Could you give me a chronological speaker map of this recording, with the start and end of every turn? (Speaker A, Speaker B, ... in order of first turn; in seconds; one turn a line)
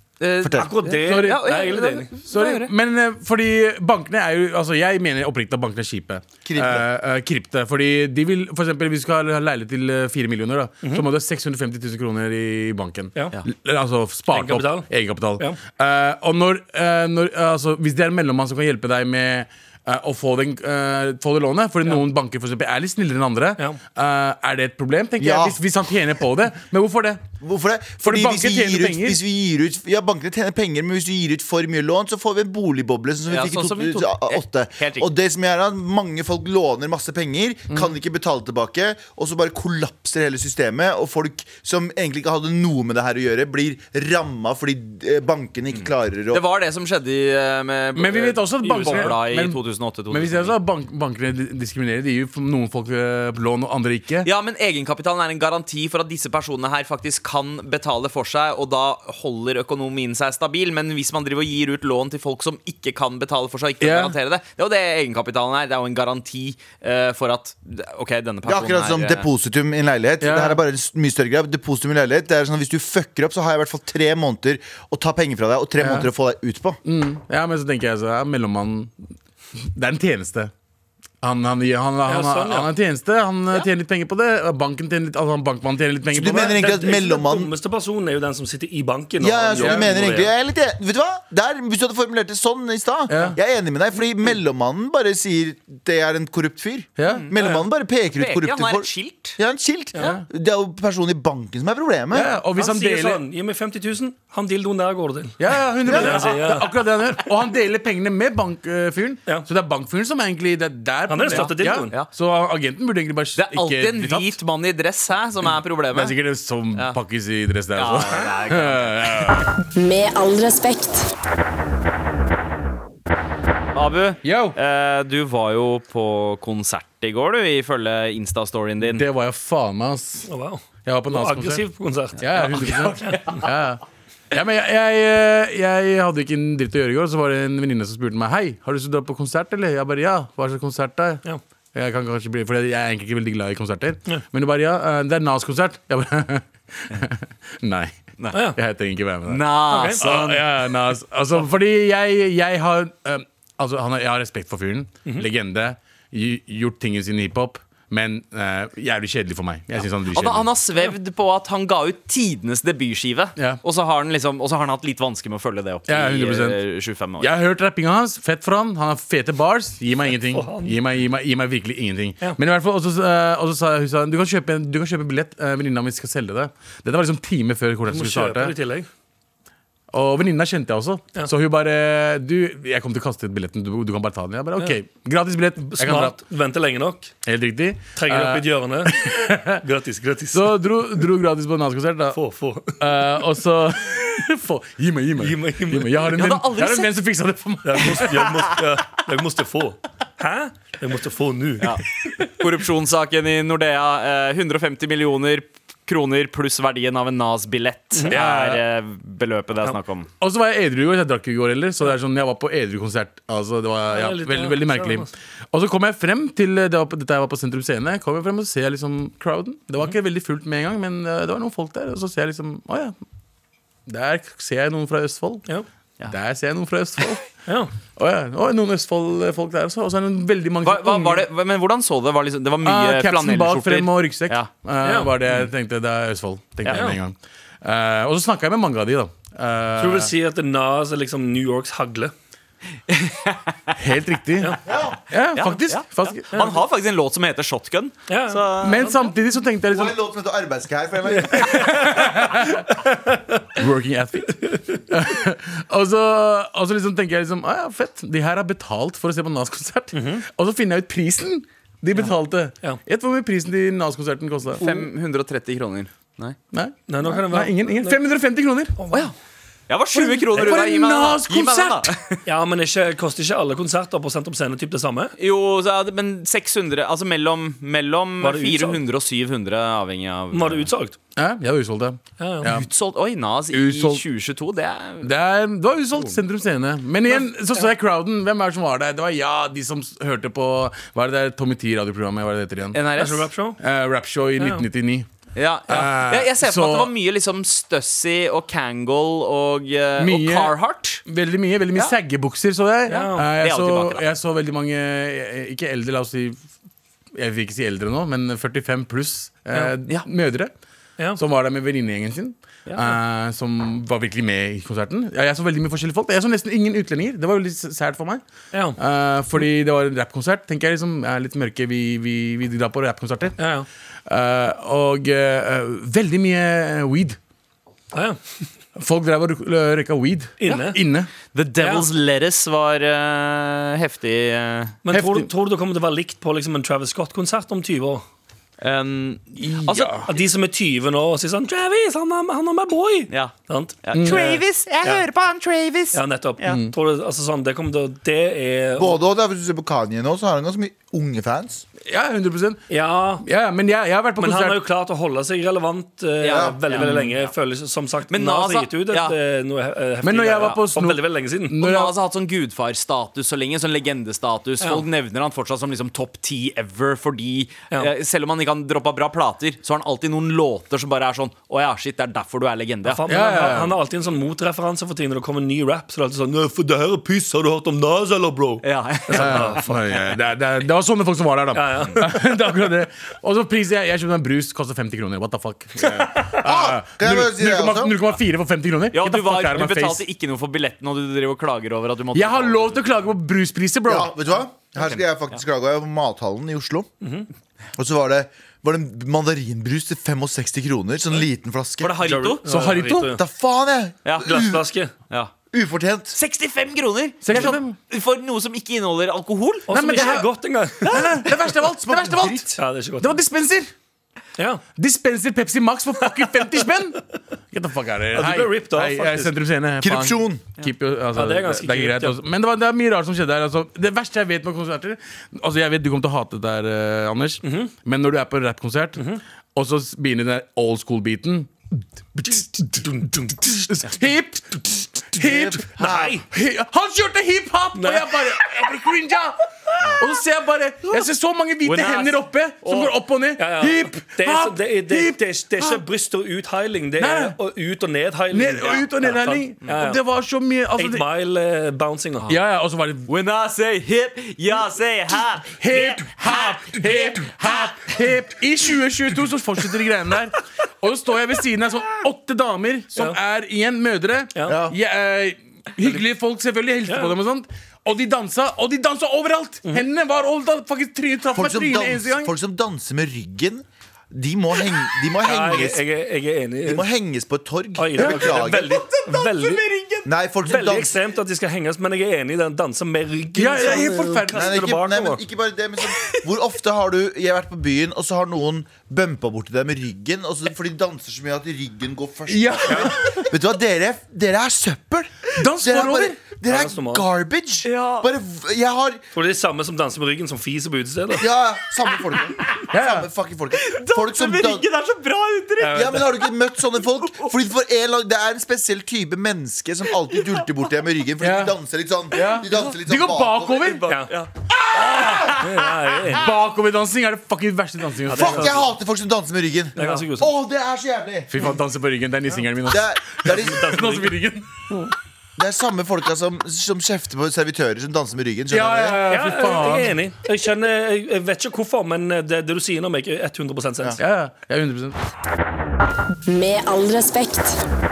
Speaker A: 0.2-2.7
Speaker B: 0.4-0.7
Speaker C: 0.6-2.1
Speaker D: 1.0-1.7
Speaker D: 2.3-27.2
Speaker B: 6.4-6.8
Speaker C: 14.3-14.9
Speaker B: 25.2-25.6
Speaker B: 27.4-46.4
Speaker D: 28.0-29.2
Speaker A: 33.3-35.1
Speaker A: 45.7-50.5
Speaker D: 48.0-49.6
Speaker D: 50.1-54.3
Speaker A: 54.2-69.3
Speaker D: 63.8-64.1
Speaker B: 68.5-76.8
Speaker D: 70.2-70.6
Speaker D: 75.8-76.1
Speaker D: 76.8-78.9
Speaker D: 79.5-80.5
Speaker D: 81.2-86.6
Speaker C: 82.0-82.7
Speaker B: 86.1-87.5
Speaker C: 86.3-90.3
Speaker B: 89.2-102.3
Speaker D: 89.5-89.9
Speaker D: 93.1-93.4
Speaker D: 97.0-97.3
Speaker C: 97.4-97.6
Speaker A: 98.1-99.4
Speaker D: 100.0-100.2
Speaker D: 102.1-103.2
Speaker C: 102.5-106.7
Speaker D: 105.4-114.3
Speaker B: 105.9-106.2
Speaker C: 111.1-111.9
Speaker A: 111.3-112.1
Speaker A: 113.3-116.1
Speaker D: 115.9-119.6
Speaker A: 117.7-119.4
Speaker E: 119.7-121.1
Speaker A: 123.7-129.0
Speaker D: 124.2-124.6
Speaker D: 128.8-130.3
Speaker C: 130.3-133.5
Speaker D: 130.8-131.6
Speaker D: 132.2-160.5
Speaker C: 148.3-148.6
Speaker A: 149.3-150.4
Speaker C: 149.7-150.3
Speaker A: 159.8-167.3
Speaker D: 165.9-166.6
Speaker D: 167.2-178.5
Speaker C: 170.3-170.8
Speaker C: 177.9-178.9
Speaker D: 179.9-186.2
Speaker C: 185.6-187.1
Speaker D: 187.2-189.6
Speaker C: 187.9-188.9
Speaker C: 189.5-190.6
Speaker D: 190.3-192.2
Speaker C: 192.1-192.7
Speaker D: 192.8-198.6
Speaker C: 195.2-196.1
Speaker A: 196.1-196.9
Speaker C: 197.6-201.8
Speaker A: 201.6-210.1
Speaker D: 208.1-208.6
Speaker D: 210.2-222.9
Speaker C: 213.9-215.1
Speaker D: 223.9-225.5
Speaker D: 226.1-227.2
Speaker D: 227.9-231.2
Speaker A: 230.6-234.5
Speaker D: 232.6-240.1
Speaker C: 234.8-235.1
Speaker A: 236.6-236.9
Speaker C: 236.7-237.0
Speaker C: 239.8-242.1
Speaker A: 242.9-243.8
Speaker D: 243.8-244.6
Speaker B: 244.7-245.0
Speaker D: 245.1-246.4
Speaker A: 245.3-248.9
Speaker C: 248.1-249.0
Speaker D: 248.6-250.0
Speaker B: 249.7-251.8
Speaker C: 251.1-252.3
Speaker D: 251.4-264.6
Speaker C: 259.9-260.2
Speaker C: 264.6-264.8
Speaker A: 264.6-266.4
Speaker D: 266.5-268.7
Speaker C: 266.9-268.0
Speaker C: 268.8-269.1
Speaker A: 269.7-272.2
Speaker D: 269.9-271.9
Speaker C: 272.2-275.1
Speaker A: 275.2-280.7
Speaker C: 278.2-278.8
Speaker C: 280.3-281.0
Speaker D: 281.1-282.7
Speaker C: 282.2-282.5
Speaker A: 282.4-285.1
Speaker D: 283.5-284.0
Speaker D: 285.0-292.8
Speaker C: 287.1-287.7
Speaker A: 292.7-293.3
Speaker C: 293.0-293.6
Speaker D: 293.6-295.1
Speaker C: 294.4-294.6
Speaker A: 295.4-301.0
Speaker D: 295.7-296.9
Speaker D: 300.0-306.4
Speaker C: 302.9-303.2
Speaker A: 303.4-304.0
Speaker D: 307.1-310.5
Speaker D: 311.1-318.2
Speaker C: 318.5-318.8
Speaker D: 318.7-323.4
Speaker C: 323.4-323.7
Speaker D: 324.1-327.2
Speaker C: 327.9-328.2
Speaker D: 328.8-331.1
Speaker C: 330.4-330.8
Speaker A: 331.3-334.8
Speaker C: 331.6-331.9
Speaker C: 334.8-338.0
Speaker D: 334.9-335.3
Speaker A: 338.6-339.9
Speaker D: 339.4-340.1
Speaker C: 340.1-345.0
Speaker A: 343.1-346.6
Speaker D: 343.9-344.3
Speaker C: 345.9-348.9
Speaker D: 346.5-346.7
Speaker B: 348.8-351.6
Speaker D: 351.9-352.7
Speaker C: 352.7-353.2
Speaker D: 353.2-354.6
Speaker C: 354.2-361.6
Speaker A: 356.2-357.3
Speaker B: 356.3-356.6
Speaker A: 358.1-359.1
Speaker D: 360.0-361.9
Speaker A: 361.6-373.2
Speaker C: 372.9-379.7
Speaker D: 373.1-373.8
Speaker A: 378.6-379.6
Speaker D: 379.1-390.0
Speaker C: 381.5-382.1
Speaker B: 386.2-387.9
Speaker A: 388.9-392.8
Speaker D: 392.1-394.1
Speaker B: 393.9-396.9
Speaker A: 394.8-395.0
Speaker C: 397.0-397.3
Speaker B: 397.8-402.0
Speaker A: 401.8-402.4
Speaker C: 402.0-403.2
Speaker D: 402.5-403.2
Speaker B: 403.0-404.6
Speaker C: 404.2-404.9
Speaker B: 405.5-406.2
Speaker A: 406.1-410.1
Speaker D: 407.2-407.8
Speaker C: 409.7-411.3
Speaker D: 409.7-410.3
Speaker D: 410.8-413.7
Speaker A: 410.9-411.2
Speaker B: 412.0-412.5
Speaker C: 412.5-413.2
Speaker C: 414.4-414.6
Speaker D: 414.8-431.5
Speaker C: 418.1-419.3
Speaker B: 419.8-420.4
Speaker C: 421.1-422.2
Speaker C: 427.4-427.7
Speaker D: 432.1-445.8
Speaker C: 432.8-433.4
Speaker B: 435.2-436.2
Speaker C: 435.8-436.2
Speaker C: 437.7-438.2
Speaker A: 441.6-442.9
Speaker C: 443.4-450.0
Speaker D: 447.0-447.4
Speaker D: 448.3-451.1
Speaker C: 450.8-452.4
Speaker D: 452.3-453.1
Speaker A: 453.1-457.1
Speaker D: 455.4-472.3
Speaker B: 464.4-464.8
Speaker C: 466.9-467.1
Speaker B: 471.3-475.8
Speaker C: 475.2-476.8
Speaker B: 476.6-478.9
Speaker C: 477.8-485.2
Speaker D: 477.9-478.5
Speaker B: 480.0-481.0
Speaker D: 483.3-484.6
Speaker B: 484.3-499.0
Speaker D: 492.3-493.3
Speaker C: 492.7-492.9
Speaker D: 495.3-496.2
Speaker C: 496.4-497.0
Speaker A: 497.6-498.1
Speaker C: 499.1-501.2
Speaker B: 501.2-504.6
Speaker D: 502.7-503.1
Speaker A: 503.5-506.2
Speaker C: 505.6-506.1
Speaker B: 505.7-513.8
Speaker A: 507.0-507.3
Speaker A: 510.1-510.4
Speaker D: 511.2-511.6
Speaker D: 512.1-514.0
Speaker A: 513.5-514.3
Speaker D: 515.0-515.3
Speaker C: 515.2-516.3
Speaker D: 516.2-518.6
Speaker C: 518.0-518.7
Speaker B: 518.1-521.3
Speaker C: 519.8-520.3
Speaker D: 521.3-524.5
Speaker B: 522.7-524.0
Speaker C: 523.4-524.1
Speaker B: 525.4-529.0
Speaker D: 528.5-530.0
Speaker C: 529.1-534.0
Speaker D: 534.0-535.0
Speaker E: 536.2-537.6